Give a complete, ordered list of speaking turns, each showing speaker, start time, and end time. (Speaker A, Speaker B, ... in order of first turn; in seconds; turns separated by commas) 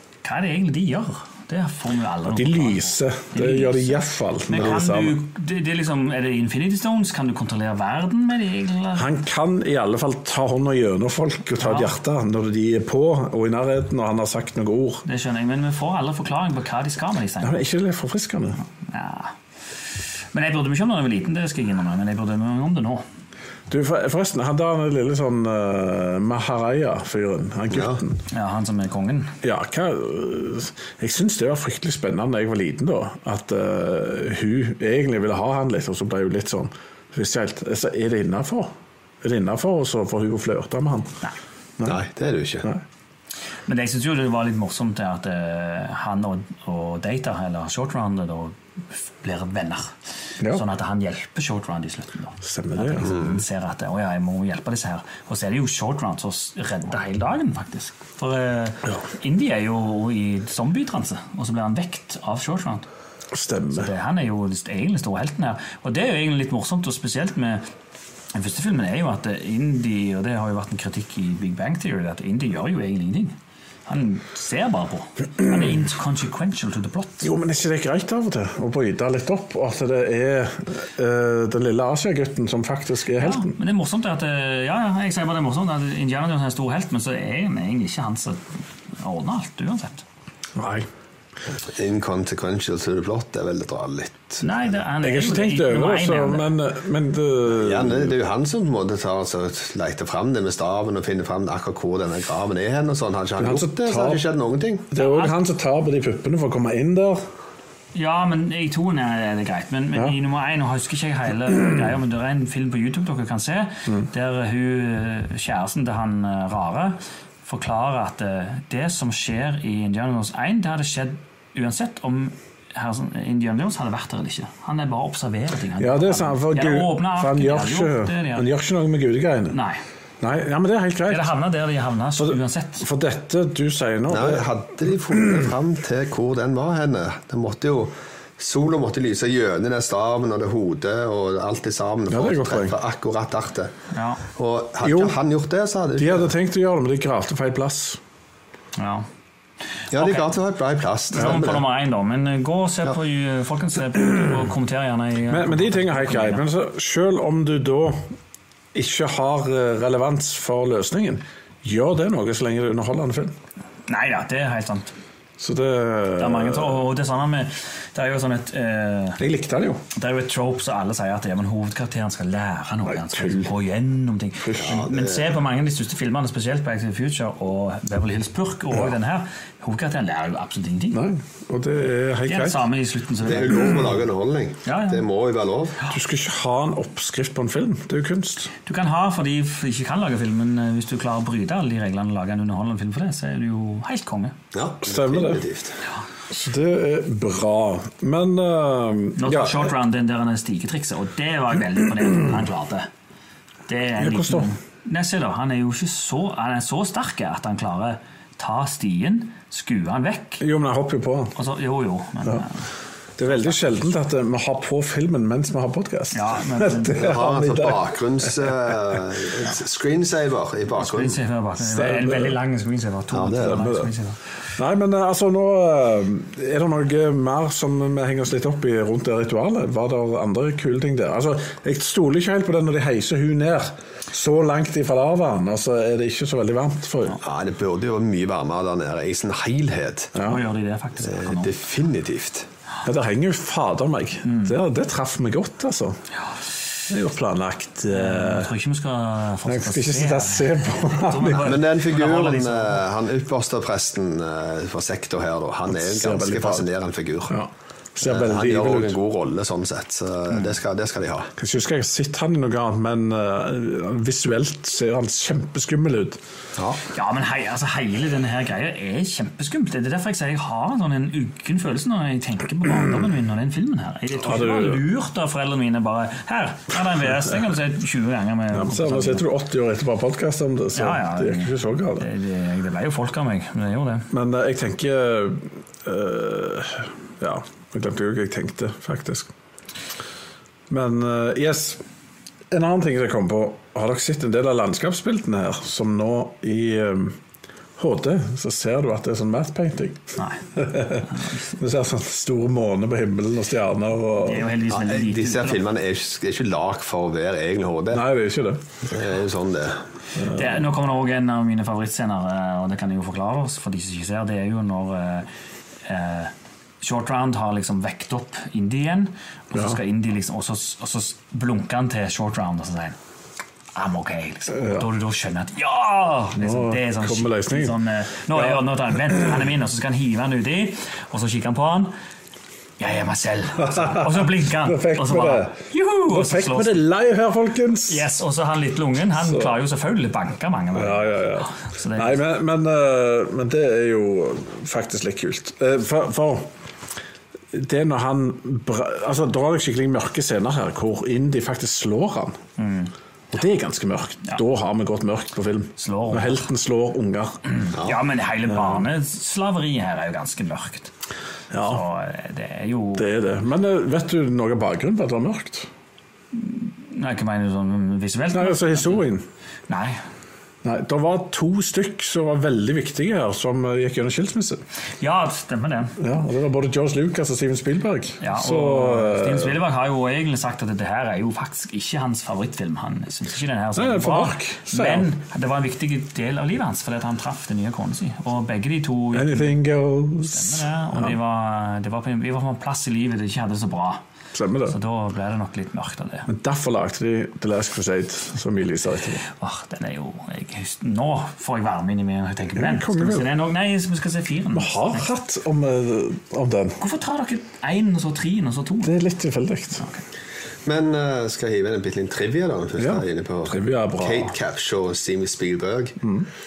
Speaker A: 0.2-9.1, Speaker B: 2.3-5.2, Speaker B: 8.9-15.0, Speaker A: 11.6-11.9, Speaker A: 15.0-17.6, Speaker B: 17.4-18.6, Speaker A: 18.9-19.3, Speaker A: 20.3-23.0, Speaker B: 23.7-28.2, Speaker C: 27.7-28.0, Speaker A: 28.3-29.3, Speaker B: 29.4-41.2, Speaker C: 41.8-42.7, Speaker A: 43.7-62.9, Speaker B: 52.4-53.1, Speaker B: 63.3-63.9, Speaker A: 63.7-67.7, Speaker A: 68.3-73.3, Speaker A: 73.9-77.3, Speaker B: 77.2-83.5, Speaker A: 83.2-90.0, Speaker B: 90.5-90.9, Speaker C: 91.7-94.4, Speaker A: 94.4-96.5, Speaker B: 95.0-98.2, Speaker C: 97.5-104.9, Speaker B: 103.4-104.2, Speaker B: 104.9-107.2, Speaker A: 105.0-105.3, Speaker A: 107.9-128.5, Speaker B: 125.8-129.6, Speaker A: 129.5-129.8, Speaker B: 130.2-131.3, Speaker A: 131.1-132.8, Speaker B: 132.2-135.5, Speaker C: 134.1-143.7, Speaker B: 142.1-142.8, Speaker A: 143.9-144.2, Speaker C: 144.3-146.3, Speaker B: 144.8-145.2, Speaker B: 146.0-148.0, Speaker A: 148.8-149.1, Speaker C: 149.9-151.6, Speaker A: 149.9-150.3, Speaker A: 151.1-156.4, Speaker B: 155.3-158.1, Speaker B: 158.7-163.3, Speaker A: 163.9-164.9, Speaker B: 165.4-166.8, Speaker A: 166.2-169.2, Speaker B: 169.2-169.8, Speaker A: 169.9-181.0, Speaker B: 172.9-173.5, Speaker B: 174.4-174.8, Speaker C: 174.6-175.3, Speaker B: 180.9-182.7, Speaker A: 182.2-183.9, Speaker C: 183.2-185.8, Speaker A: 184.6-185.0, Speaker B: 185.9-188.5, Speaker A: 188.6-194.3, Speaker C: 194.5-195.8, Speaker B: 194.8-195.4, Speaker B: 196.3-199.7, Speaker A: 199.2-202.9, Speaker A: 203.7-210.4, Speaker B: 204.0-204.5, Speaker B: 210.4-211.3, Speaker A: 211.3-212.7, Speaker B: 213.2-218.7, Speaker A: 213.2-213.9, Speaker A: 216.1-217.2, Speaker C: 216.9-221.2, Speaker A: 220.7-224.2, Speaker B: 221.6-222.4, Speaker C: 223.1-223.6, Speaker B: 223.4-223.9, Speaker B: 224.6-237.2, Speaker C: 237.2-240.1, Speaker A: 240.2-241.5, Speaker C: 241.0-242.5, Speaker B: 242.8-246.0, Speaker A: 244.2-244.5, Speaker B: 246.9-248.5, Speaker A: 247.9-252.8, Speaker B: 249.4-251.6, Speaker C: 251.4-257.4, Speaker B: 255.7-256.7, Speaker B: 257.3-258.9, Speaker C: 258.0-261.3, Speaker B: 261.4-266.2, Speaker A: 266.9-279.2, Speaker B: 274.2-274.8, Speaker B: 278.5-282.1, Speaker A: 280.7-284.1, Speaker B: 284.1-289.3, Speaker B: 290.7-291.8, Speaker B: 292.5-297.2, Speaker B: 297.8-304.5, Speaker A: 300.2-300.4, Speaker A: 301.0-301.6, Speaker A: 304.2-305.6, Speaker C: 304.7-308.0, Speaker B: 307.9-308.6, Speaker C: 308.9-309.8, Speaker B: 310.2-310.5, Speaker A: 310.2-315.3, Speaker A: 315.9-323.0, Speaker B: 319.5-319.8, Speaker A: 323.7-331.9, Speaker B: 324.5-324.8, Speaker B: 326.4-327.8, Speaker B: 328.3-329.4, Speaker A: 332.8-336.8, Speaker B: 333.6-335.6, Speaker B: 336.1-338.0, Speaker A: 337.9-342.2, Speaker B: 339.2-339.5, Speaker B: 340.7-346.5, Speaker B: 347.5-352.4, Speaker A: 352.6-352.9, Speaker B: 353.3-357.4, Speaker A: 355.8-356.5, Speaker A: 357.5-360.9, Speaker B: 358.5-358.8, Speaker B: 361.5-361.8, Speaker A: 361.6-363.1, Speaker B: 362.9-365.7, Speaker A: 366.3-369.1, Speaker B: 368.3-369.2, Speaker A: 369.7-370.0, Speaker B: 370.6-374.6, Speaker A: 375.0-376.0, Speaker B: 376.0-379.5, Speaker A: 378.2-389.6, Speaker B: 383.7-385.1, Speaker B: 389.1-391.1, Speaker A: 390.2-394.0, Speaker B: 394.3-394.8, Speaker A: 394.6-396.3, Speaker B: 396.3-399.2, Speaker A: 399.3-405.1, Speaker B: 402.6-403.3, Speaker B: 404.5-406.8, Speaker A: 406.8-409.0, Speaker B: 408.8-409.8, Speaker A: 409.8-410.0, Speaker C: 410.6-416.0, Speaker B: 412.8-414.3, Speaker B: 416.0-416.3